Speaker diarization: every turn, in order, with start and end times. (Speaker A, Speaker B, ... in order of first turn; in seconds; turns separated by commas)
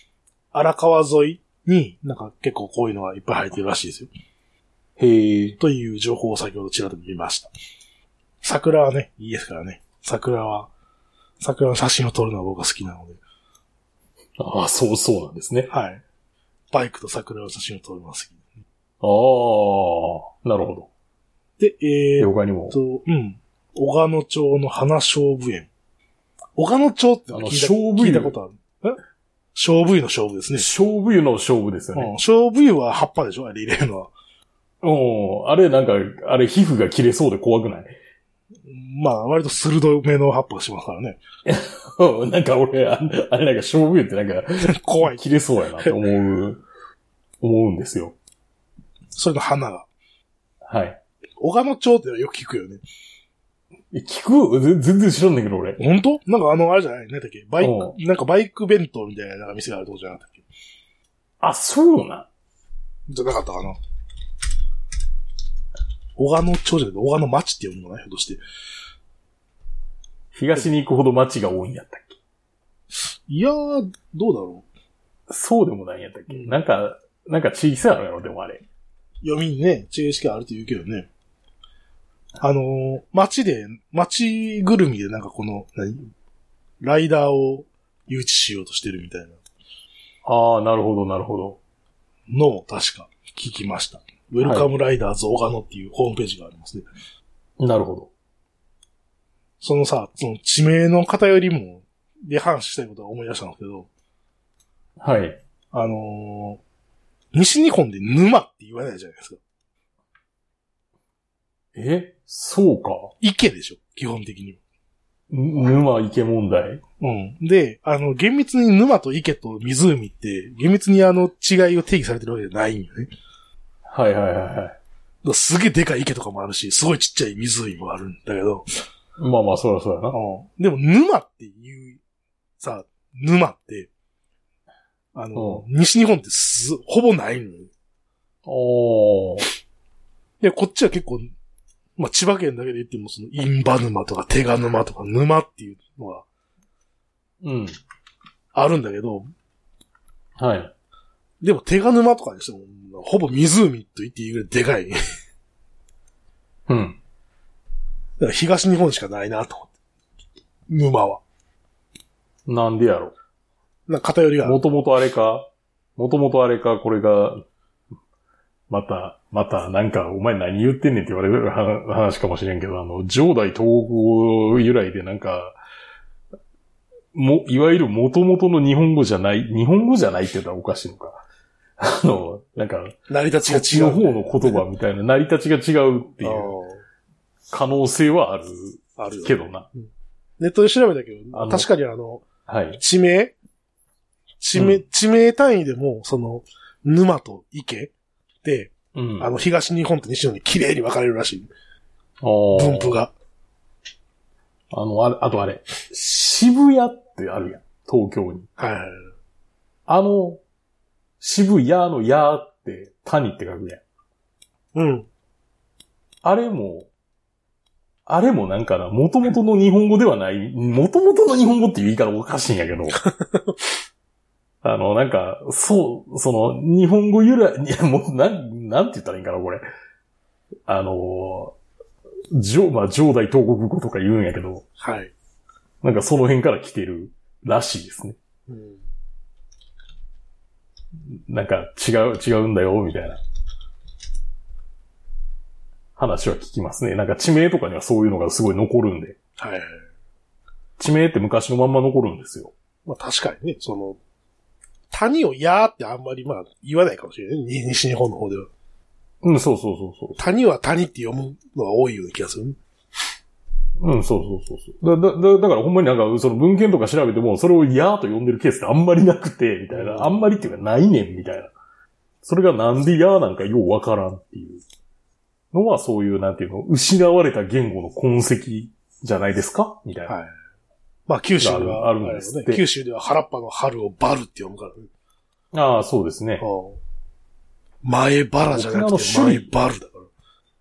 Speaker A: 0.5-4.1, Speaker B: 5.0-5.6, Speaker A: 5.6-7.5, Speaker A: 8.4-10.7, Speaker A: 11.4-13.2, Speaker B: 14.4-15.7, Speaker A: 15.7-16.0, Speaker A: 16.7-18.4, Speaker B: 19.0-20.9, Speaker A: 21.6-25.7, Speaker B: 22.2-22.7, Speaker A: 26.6-29.0, Speaker B: 27.3-28.3, Speaker A: 29.5-30.7, Speaker B: 30.6-32.1, Speaker A: 31.9-34.1, Speaker B: 34.8-37.9, Speaker A: 38.6-41.2, Speaker B: 41.4-46.6, Speaker A: 44.6-45.2, Speaker B: 47.4-48.1, Speaker A: 49.1-49.9, Speaker B: 50.6-51.0, Speaker A: 51.4-52.8, Speaker B: 53.9-55.8, Speaker A: 55.8-60.4, Speaker B: 57.6-57.9, Speaker B: 61.4-62.3, Speaker A: 63.1-63.8, Speaker A: 66.2-68.4, Speaker B: 70.3-72.2, Speaker A: 73.0-74.7, Speaker B: 75.3-78.6, Speaker A: 76.3-76.6, Speaker A: 79.2-81.1, Speaker A: 82.4-86.1, Speaker A: 86.8-89.4, Speaker B: 90.2-91.6, Speaker A: 92.3-96.8, Speaker B: 94.4-94.7, Speaker B: 97.6-98.1, Speaker A: 99.6-103.9, Speaker B: 105.0-105.4, Speaker A: 105.7-106.6, Speaker A: 107.3-109.4, Speaker B: 111.7-113.1, Speaker A: 113.2-114.6, Speaker B: 115.3-116.8, Speaker A: 117.0-123.1, Speaker B: 123.8-124.8, Speaker A: 125.2-128.7, Speaker B: 129.2-130.2, Speaker A: 130.1-132.0, Speaker A: 132.6-133.9, Speaker A: 135.1-137.7, Speaker B: 135.3-135.6, Speaker B: 138.4-139.4, Speaker A: 140.4-141.3, Speaker A: 142.0-146.2, Speaker B: 147.4-147.8, Speaker A: 148.5-149.3, Speaker B: 150.4-150.7, Speaker A: 151.4-155.0, Speaker B: 156.7-157.0, Speaker A: 158.2-159.7, Speaker A: 160.7-161.2, Speaker B: 162.4-163.1, Speaker A: 163.9-164.6, Speaker B: 164.4-167.4, Speaker B: 168.7-175.6, Speaker B: 177.1-181.2, Speaker B: 181.8-186.5, Speaker A: 183.1-184.6, Speaker A: 186.2-186.8, Speaker B: 187.5-189.7, Speaker A: 189.0-192.2, Speaker B: 191.3-191.7, Speaker B: 192.5-192.8, Speaker A: 192.8-193.4, Speaker A: 194.4-197.9, Speaker B: 194.5-194.8, Speaker A: 198.4-201.5, Speaker B: 198.9-199.3, Speaker B: 202.2-203.0, Speaker A: 202.5-203.1, Speaker B: 204.7-208.5, Speaker A: 208.6-209.1, Speaker B: 209.9-210.4, Speaker B: 211.2-213.8, Speaker A: 214.7-215.1, Speaker B: 216.2-216.9, Speaker B: 218.1-223.0, Speaker B: 224.6-229.6, Speaker B: 230.7-231.6, Speaker B: 232.3-234.6, Speaker A: 234.8-235.1, Speaker B: 235.8-238.2, Speaker A: 238.5-238.8, Speaker B: 241.1-243.2, Speaker B: 246.0-249.2, Speaker A: 249.4-249.8, Speaker B: 250.8-252.5, Speaker A: 252.8-254.0, Speaker A: 254.9-258.5, Speaker B: 259.2-260.2, Speaker A: 260.2-262.6, Speaker B: 263.8-271.5, Speaker A: 269.7-270.2, Speaker B: 272.2-274.6, Speaker B: 275.5-280.1, Speaker A: 280.1-280.3, Speaker A: 281.1-284.9, Speaker B: 281.4-282.6, Speaker B: 285.5-286.4, Speaker A: 286.4-286.8, Speaker A: 287.8-290.1, Speaker B: 288.5-289.5